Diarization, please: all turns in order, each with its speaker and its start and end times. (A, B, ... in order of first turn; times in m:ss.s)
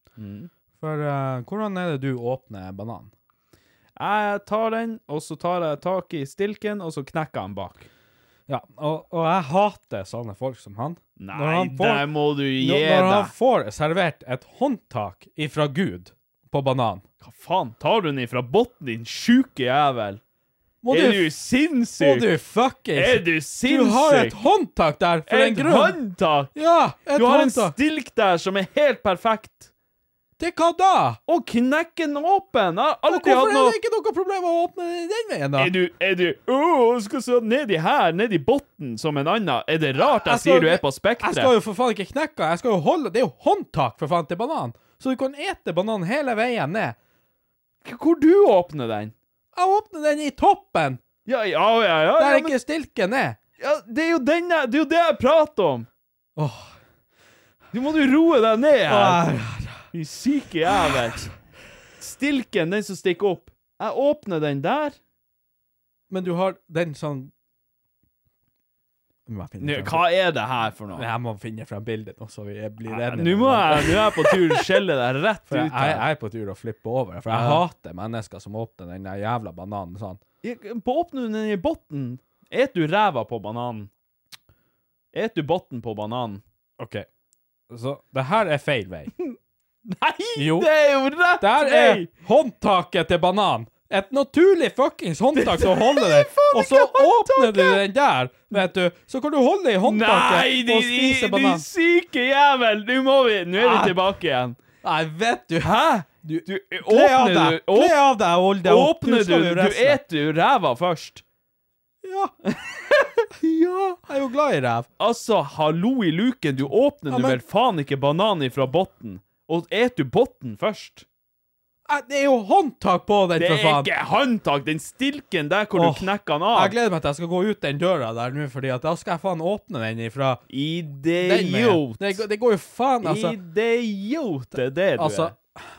0:00.2-0:00.5 A
0:00.8-0:03.1 B
0:04.0-0:07.9 A
0:08.5-0:17.0 B
0:11.2-0:13.3 A
0:17.2-0:20.2 A
0:20.8-0:21.3 B
0:20.9-0:22.3 A
0:22.0-0:26.0 B
0:23.0-0:24.4 A
0:25.3-0:26.5 A
0:26.5-0:27.8 B
0:27.1-0:29.7 A
0:30.4-0:31.2 B
0:31.3-0:33.8 A
0:33.1-0:35.7 B
0:35.6-0:41.5 A
0:40.0-0:47.0 B
0:47.8-0:49.1 A
0:49.5-0:51.0 B
0:51.3-0:52.6 A
0:52.2-0:53.4 B
0:53.6-0:55.9 A
0:56.4-0:56.8 B
0:57.7-0:59.3 A
0:58.9-0:59.9 B
0:59.9-1:01.3 A
1:02.0-1:05.0 A
1:06.1-1:07.3 B
1:09.3-1:10.1 B
1:09.6-1:11.1 A
1:10.9-1:14.8 B
1:12.9-1:16.1 A
1:15.5-1:20.2 B
1:17.3-1:17.6 A
1:20.4-1:23.9 A
1:25.1-1:26.4 A
1:26.8-1:27.1 B
1:27.7-1:29.1 B
1:29.9-1:32.1 A
1:30.4-1:30.7 B
1:31.4-1:41.7 B
1:35.4-1:37.8 A
1:39.8-1:44.6 A
1:43.6-1:44.0 B
1:44.8-1:50.0 B
1:45.6-1:48.0 A
1:48.6-1:51.2 A
1:52.0-1:52.3 B
1:53.4-1:54.9 B
1:55.0-2:01.1 A
1:57.1-1:57.4 B
2:01.9-2:03.9 B
2:03.4-2:06.8 A
2:05.8-2:10.4 B
2:10.5-2:12.2 A
2:11.2-2:13.4 B
2:13.0-2:15.4 A
2:15.0-2:15.6 B